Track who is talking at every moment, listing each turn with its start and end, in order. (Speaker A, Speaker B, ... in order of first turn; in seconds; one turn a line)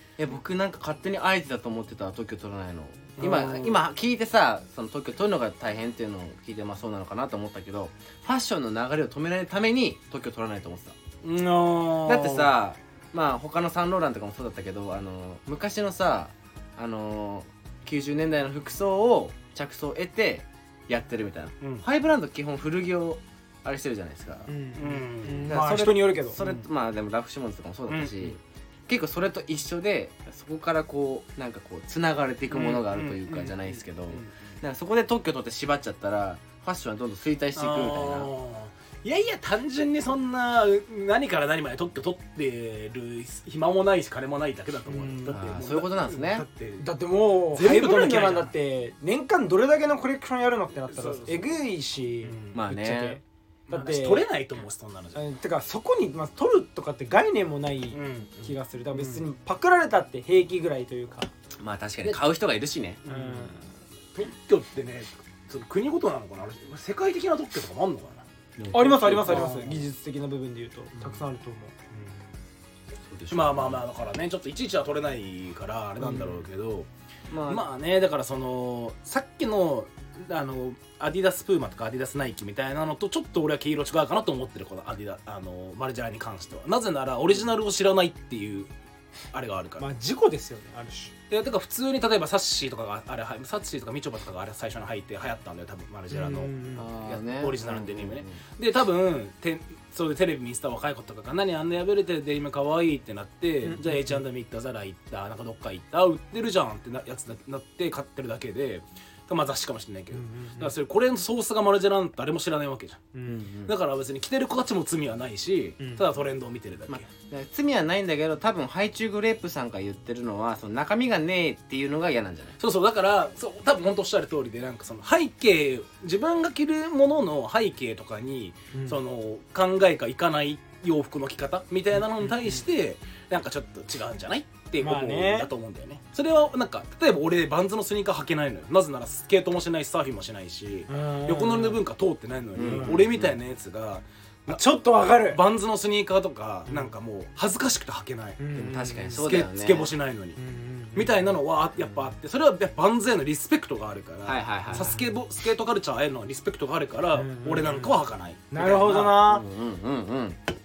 Speaker A: 0.2-11.0
Speaker B: 3.2-3.8
Speaker B: 11.2-12.5
Speaker A: 12.0-24.5
Speaker C: 24.5-26.4
Speaker B: 24.8-25.9
Speaker A: 25.4-38.3
Speaker B: 26.4-26.6
Speaker B: 27.9-28.3
Speaker B: 32.5-34.3
Speaker B: 37.5-46.9
Speaker C: 44.9-45.4
Speaker A: 45.3-46.4
Speaker C: 46.8-54.2
Speaker B: 47.5-48.5
Speaker B: 50.9-51.5
Speaker B: 52.2-52.6
Speaker A: 52.5-53.2
Speaker B: 53.7-55.2
Speaker C: 55.1-61.3
Speaker B: 57.9-59.2
Speaker A: 61.6-63.0
Speaker B: 63.0-63.6
Speaker C: 63.1-63.6
Speaker B: 64.1-68.2
Speaker A: 68.6-69.8
Speaker C: 68.7-71.7
Speaker B: 69.0-69.7
Speaker A: 73.1-73.8
Speaker B: 73.3-76.9
Speaker C: 76.0-76.3
Speaker A: 77.3-77.6
Speaker B: 77.5-88.7
Speaker B: 89.3-89.9
Speaker C: 89.8-91.1
Speaker B: 91.3-113.1
Speaker C: 96.1-96.8
Speaker A: 96.8-98.4
Speaker C: 103.6-104.2
Speaker C: 110.1-110.7
Speaker C: 113.1-113.5
Speaker A: 113.3-113.7
Speaker B: 113.6-117.1
Speaker A: 116.9-122.5
Speaker B: 122.6-148.4
Speaker C: 128.7-129.0
Speaker C: 134.8-135.5
Speaker C: 140.9-141.8
Speaker A: 142.6-143.4
Speaker C: 142.6-143.0
Speaker C: 144.5-145.4
Speaker C: 146.7-146.9
Speaker C: 148.4-149.2
Speaker A: 148.5-149.9
Speaker B: 149.1-150.4
Speaker C: 150.4-151.2
Speaker B: 150.9-158.5
Speaker A: 154.2-154.9
Speaker C: 154.7-155.0
Speaker C: 157.1-157.9
Speaker C: 158.5-159.4
Speaker A: 158.6-160.4